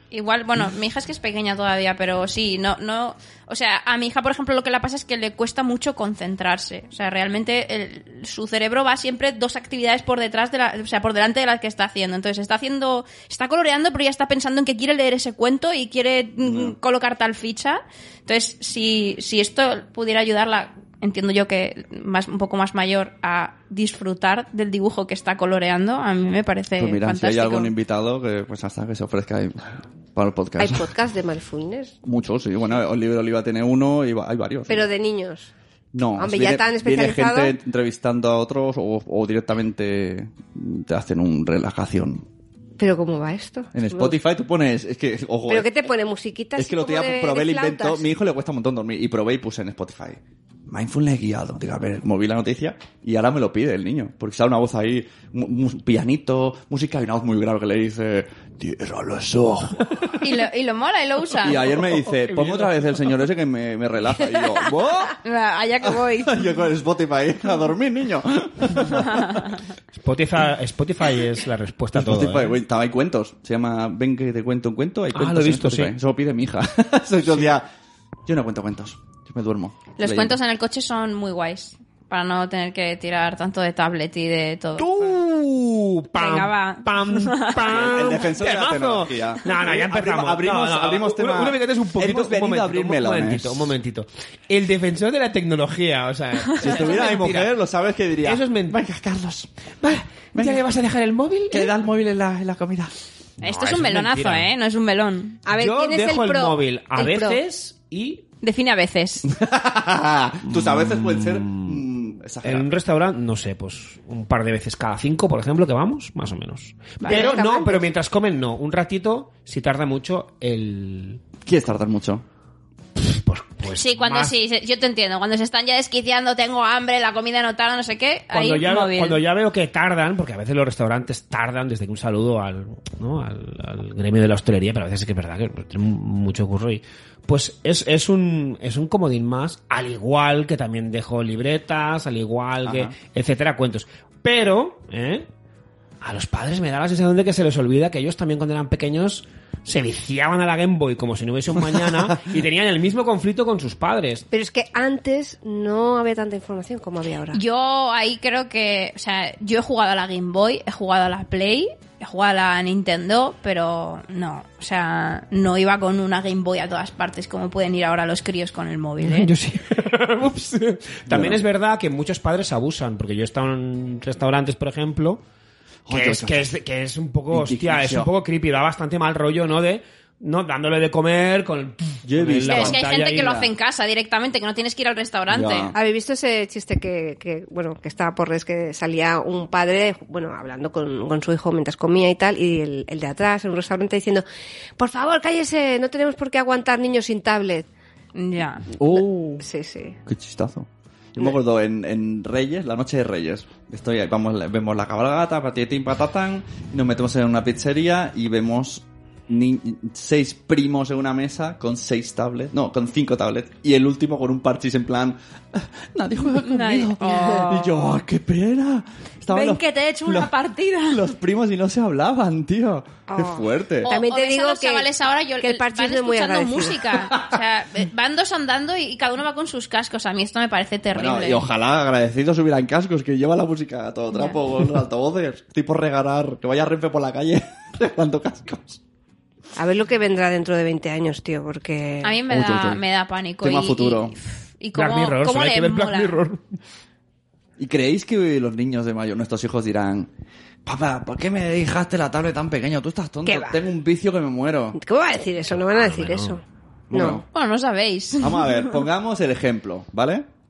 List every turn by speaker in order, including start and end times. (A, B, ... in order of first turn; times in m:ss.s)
0:00.1-0:27.7 A
0:16.4-0:16.7 B
0:26.8-0:30.9 B
0:30.6-0:32.0 C
0:32.0-0:34.9 B
0:34.7-0:35.5 C
0:35.9-0:42.2 B
0:36.2-0:37.6 C
0:42.8-0:44.2 C
0:43.7-0:45.7 B
0:45.5-0:48.0 C
0:46.6-1:00.2 B
1:00.2-1:01.9 A
1:01.4-1:05.2 B
1:02.2-1:02.8 D
1:05.2-1:06.5 A
1:05.8-1:09.4 B
1:08.9-1:09.6 A
1:09.9-1:12.6 D
1:11.9-1:17.6 B
1:15.1-1:15.9 D
1:18.2-1:20.4 B
1:20.0-1:25.2 A
1:24.8-1:37.5 D
1:26.1-1:27.7 A
1:27.6-1:33.7 B
1:36.6-1:39.5 B
1:38.2-1:38.8 D
1:39.8-1:41.7 D
1:40.3-1:40.6 B
1:41.5-1:42.9 B
1:43.4-1:44.5 D
1:43.4-1:45.4 A
1:45.4-1:47.4 C
1:45.5-1:48.2 D
1:48.4-1:49.3 A
1:49.3-1:52.7 B
1:50.5-1:51.8 D
1:52.4-2:01.2 D
1:57.0-1:57.4 A
1:57.0-1:57.8 C
2:01.4-2:02.2 B
2:03.0-2:04.3 D
2:03.7-2:09.2 A
2:08.3-2:25.3 D
2:22.6-2:22.9 B
2:26.0-2:34.2 D
2:31.7-2:32.2 B
2:34.3-2:37.4 C
2:37.3-2:49.3 A
2:49.0-2:55.2 D
2:51.1-2:51.4 B
2:55.8-2:56.5 B
2:55.9-3:03.5 D
2:57.3-2:58.1 B
3:02.0-3:02.8 B
3:02.5-3:05.7 A
3:05.3-3:05.8 B
3:05.7-3:14.2 C
3:14.8-3:17.7 C
3:18.1-3:18.7 A
3:18.8-3:19.4 B
3:18.9-3:20.0 C
3:20.1-3:40.3 B
3:36.4-3:37.8 A
3:37.1-3:37.4 C
3:39.3-3:41.1 A
3:40.9-3:43.9 B
3:43.1-3:46.9 C
3:43.8-3:51.4 A
3:50.9-3:58.8 B
3:59.6-4:02.2 C
4:02.0-4:06.2 A
4:02.3-4:02.8 B
4:03.4-4:04.2 B
4:04.7-4:06.4 D
4:07.6-4:10.1 B
4:10.6-4:14.8 B
4:13.2-4:13.6 C
4:14.8-4:16.4 C
4:15.5-4:16.4 D
4:16.9-4:17.2 B
4:16.9-4:17.2 C
4:17.3-4:18.8 A
4:18.2-4:20.2 B